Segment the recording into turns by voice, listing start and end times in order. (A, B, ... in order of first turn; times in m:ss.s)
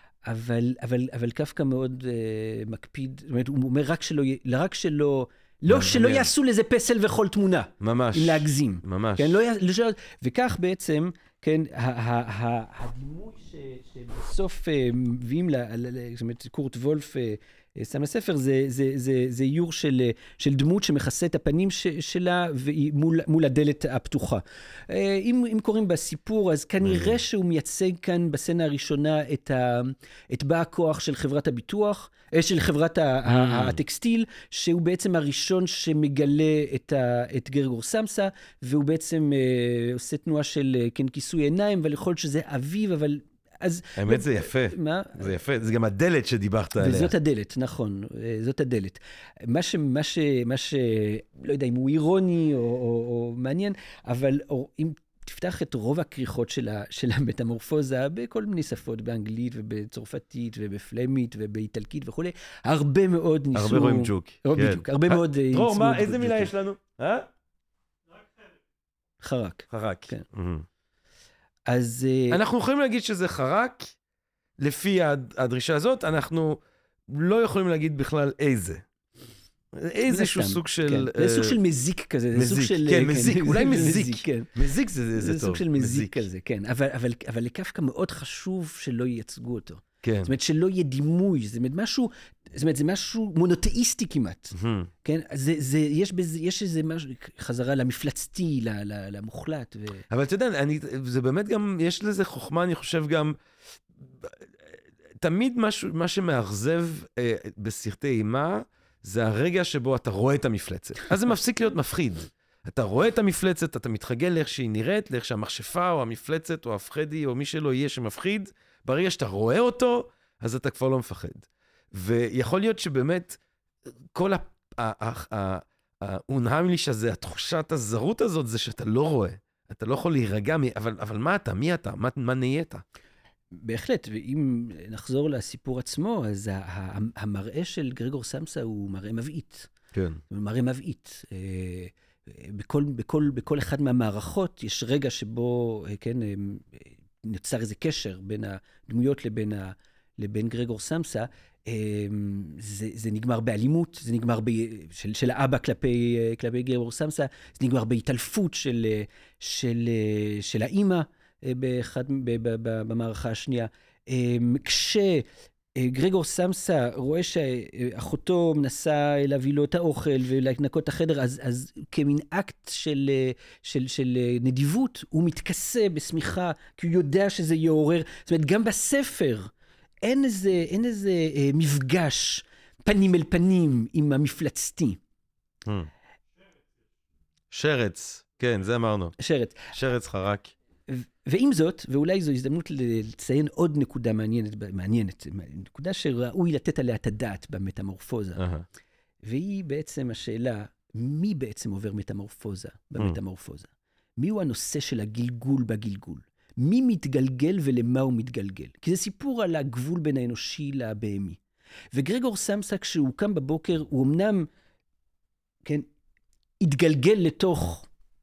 0:00.2-0:45.3 A
0:05.7-0:06.3 B
0:07.8-0:09.4 B
0:33.3-0:33.8 B
0:44.0-0:47.1 B
0:46.8-1:06.5 A
1:03.5-1:07.3 B
1:09.2-1:10.2 A
1:09.7-1:10.7 B
1:11.7-1:12.4 A
1:12.3-1:13.9 B
1:14.6-1:18.8 B
1:19.8-1:21.6 B
1:20.0-1:24.6 A
1:22.3-1:26.2 B
1:25.1-1:40.1 A
1:30.0-1:30.3 B
1:34.6-1:34.9 B
1:40.1-1:43.4 B
1:44.0-2:03.4 B
2:04.1-2:12.8 B
2:13.5-2:19.7 A
2:19.9-2:20.2 B
2:20.3-2:45.2 A
2:45.8-2:59.5 A
3:00.0-3:05.0 A
3:05.6-3:05.9 B
3:07.5-3:09.2 B
3:09.2-3:09.7 A
3:09.7-3:10.5 B
3:10.9-3:18.4 A
3:18.4-3:18.6 B
3:19.2-3:31.4 A
3:31.9-3:34.5 A
3:36.6-3:37.9 A